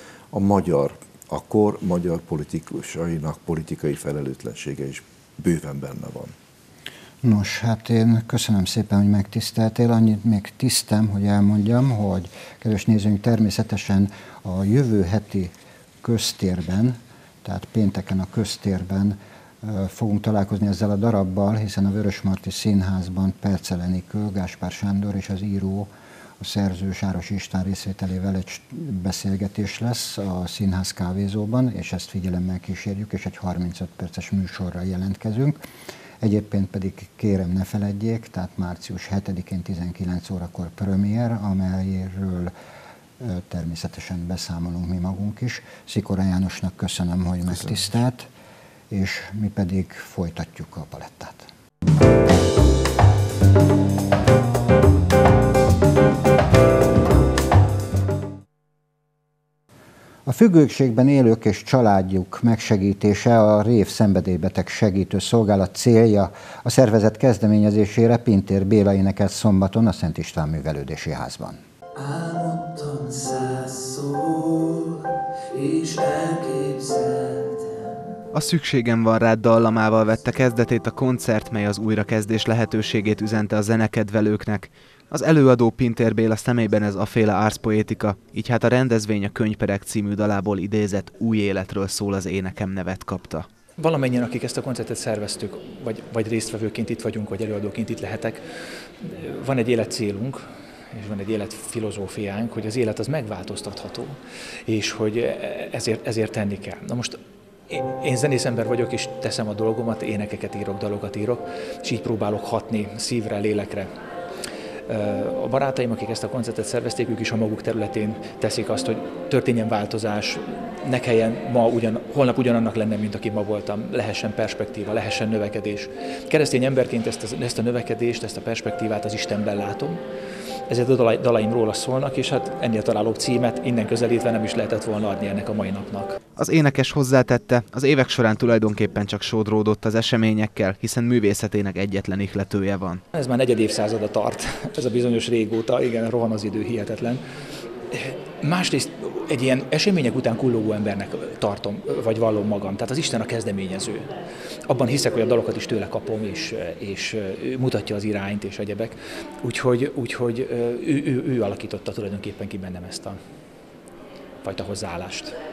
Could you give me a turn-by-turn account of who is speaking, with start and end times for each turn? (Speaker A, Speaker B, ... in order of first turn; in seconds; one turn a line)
Speaker A: 0.3-6.3
Speaker B: 7.2-35.6
Speaker B: 36.2-42.5
Speaker B: 43.2-48.3
Speaker B: 48.9-51.5
Speaker B: 60.2-71.6
Speaker C: 72.0-75.0
Speaker C: 75.5-78.1
Speaker D: 78.3-93.5
Speaker C: 93.8-98.4
Speaker C: 99.0-113.9
Speaker C: 114.9-130.0
Speaker C: 130.7-136.2
Speaker D: 136.4-143.0
Speaker C: 143.1-147.2
Speaker C: 147.9-154.1
Speaker C: 154.7-163.2
Speaker C: 164.4-165.3